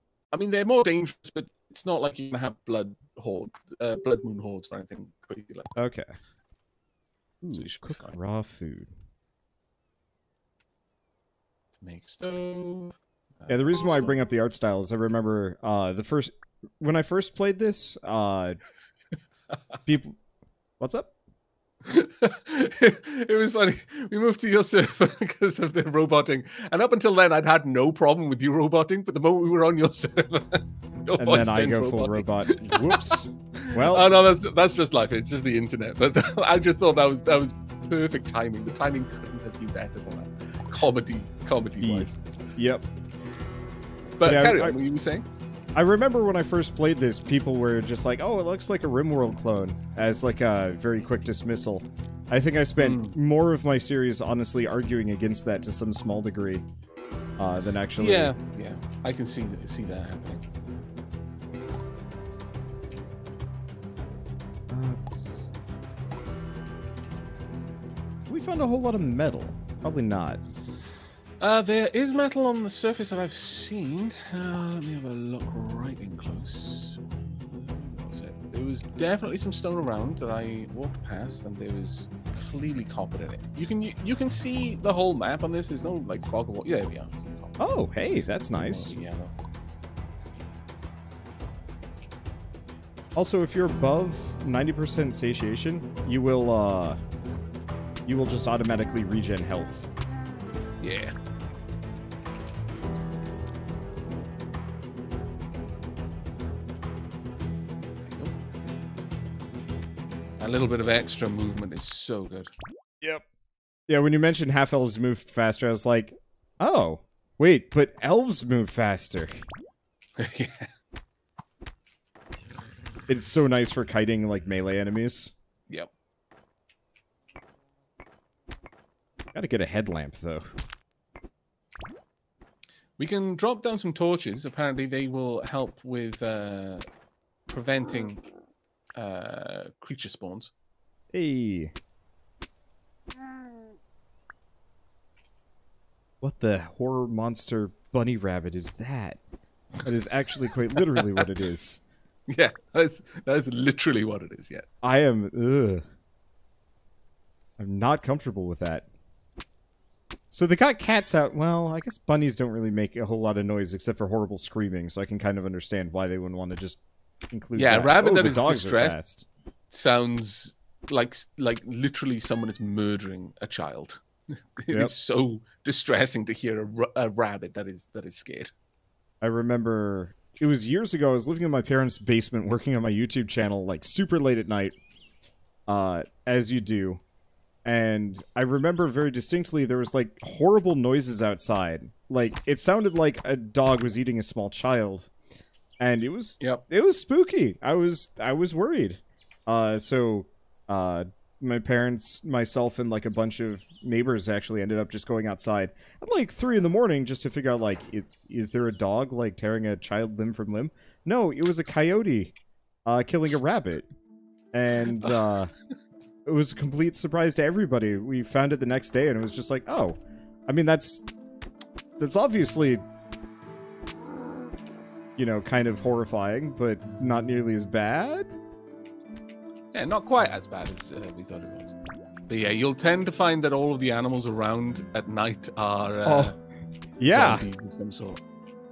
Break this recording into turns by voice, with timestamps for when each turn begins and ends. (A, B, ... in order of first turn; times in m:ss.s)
0:00.3-0:05.8 A
0:05.8-0:06.1 B
0:07.4-0:08.9 B
0:07.5-0:08.2 A
0:11.8-0:14.2 A
0:13.5-0:18.6 B
0:19.9-0:20.2 B
0:20.8-0:21.1 B
0:21.8-0:42.2 A
0:31.2-0:34.1 B
0:41.8-0:42.9 B
0:44.2-0:45.3 A
0:44.2-0:44.8 B
0:45.8-0:56.6 B
0:52.8-0:53.2 A
0:57.4-0:58.3 B
0:58.0-1:00.4 A
1:04.7-1:05.5 B
1:08.3-1:10.4 B
1:11.4-1:27.6 A
1:27.6-1:28.9 B
1:28.6-1:29.3 A
1:33.2-1:37.0 B
1:38.1-1:39.9 B
1:40.8-1:41.2 A
1:48.1-1:48.4 A
1:50.4-1:52.5 A
1:53.9-1:59.4 B
2:00.2-2:00.7 A
2:03.1-2:05.3 B
2:09.3-2:10.5 B
2:13.0-2:16.9 A
2:17.5-2:18.2 A
2:19.0-2:20.5 A
2:21.1-2:21.7 B
2:26.2-2:29.2 B
2:29.8-2:31.8 B
2:30.8-2:31.2 A
2:32.3-2:34.7 A
2:34.8-2:35.8 B
2:37.6-2:38.9 B
2:40.3-2:46.8 B
2:47.3-2:49.3 B
2:47.6-2:49.0 A
2:49.7-2:54.0 A
2:54.6-2:58.5 A
2:59.2-3:04.8 B
3:05.7-3:07.0 B
3:07.6-3:15.1 B
3:15.8-3:32.3 B
3:32.9-3:33.9 B
3:34.5-3:35.5 B
3:34.9-3:35.2 A
3:36.2-3:41.1 B
3:42.0-3:42.8 B
3:45.2-3:48.4 B
3:49.7-3:51.8 A
3:52.3-3:56.3 A
3:56.0-3:56.4 B
3:57.0-3:57.5 B
3:57.1-3:58.2 A